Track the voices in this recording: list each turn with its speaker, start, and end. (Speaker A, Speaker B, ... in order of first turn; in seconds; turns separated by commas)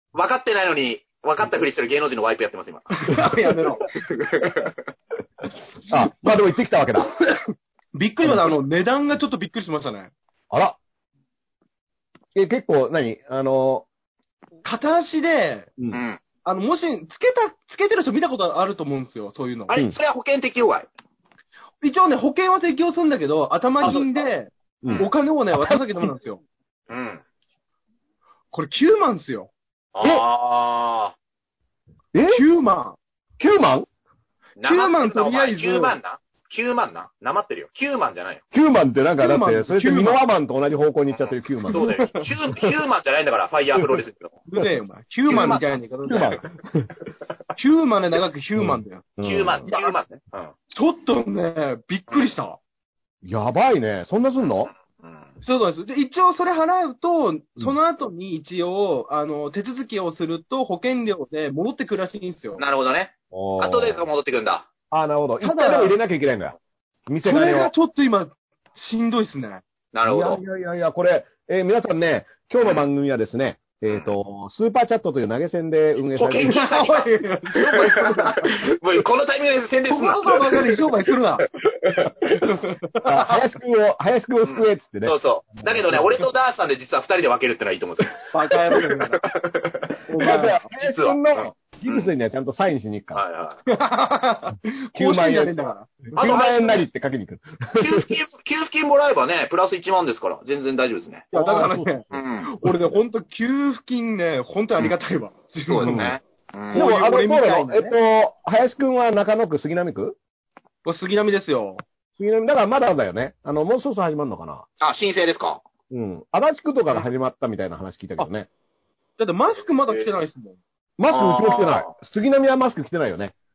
Speaker A: 0.1-3.2, Speaker B: 2.9-3.9, Speaker C: 3.1-3.6, Speaker A: 4.0-4.8, Speaker C: 5.9-7.2, Speaker B: 8.0-10.1, Speaker C: 10.5-10.8, Speaker C: 12.3-13.9, Speaker B: 14.7-15.7, Speaker A: 15.9-16.2, Speaker B: 16.4-19.8, Speaker A: 19.7-20.9, Speaker B: 21.8-26.4, Speaker C: 24.8-25.8, Speaker A: 26.9-27.2, Speaker B: 28.5-30.2, Speaker A: 29.9-31.1, Speaker C: 32.1-32.4, Speaker B: 32.3-33.0, Speaker C: 33.4-33.9, Speaker A: 34.6-38.4, Speaker B: 34.6-36.0, Speaker C: 38.5-41.9, Speaker B: 39.2-40.2, Speaker A: 41.1-44.4, Speaker B: 41.7-42.3, Speaker B: 44.5-46.4, Speaker A: 45.3-46.4, Speaker C: 46.1-46.9, Speaker B: 47.6-49.1, Speaker C: 48.6-49.7, Speaker A: 49.2-50.5, Speaker B: 49.7-50.0, Speaker B: 50.7-52.6, Speaker C: 53.2-54.7, Speaker A: 54.4-55.3, Speaker B: 55.4-62.6, Speaker A: 62.6-64.7, Speaker C: 63.3-64.0, Speaker C: 64.9-66.6, Speaker B: 65.4-66.0, Speaker C: 67.1-67.7, Speaker B: 67.2-69.6, Speaker A: 69.9-70.4, Speaker C: 70.1-76.6, Speaker A: 73.9-74.1, Speaker A: 76.1-80.8, Speaker B: 76.4-78.6, Speaker B: 79.9-81.5, Speaker A: 81.6-82.3, Speaker B: 82.3-83.4, Speaker C: 83.0-86.2, Speaker A: 84.4-92.1, Speaker B: 88.3-89.3, Speaker B: 90.1-90.7, Speaker C: 90.2-93.2, Speaker A: 93.1-93.6, Speaker B: 93.7-96.3, Speaker C: 95.0-98.2, Speaker A: 96.2-96.8, Speaker A: 97.8-101.3, Speaker B: 101.3-106.1, Speaker C: 101.3-102.7, Speaker A: 102.1-102.5, Speaker A: 105.7-106.9, Speaker C: 105.8-106.2, Speaker B: 106.7-108.0, Speaker C: 106.7-110.2, Speaker B: 110.8-111.8, Speaker C: 112.2-114.7, Speaker A: 114.8-115.6, Speaker C: 115.9-118.5, Speaker B: 119.2-120.6, Speaker C: 121.0-123.3, Speaker A: 121.1-121.9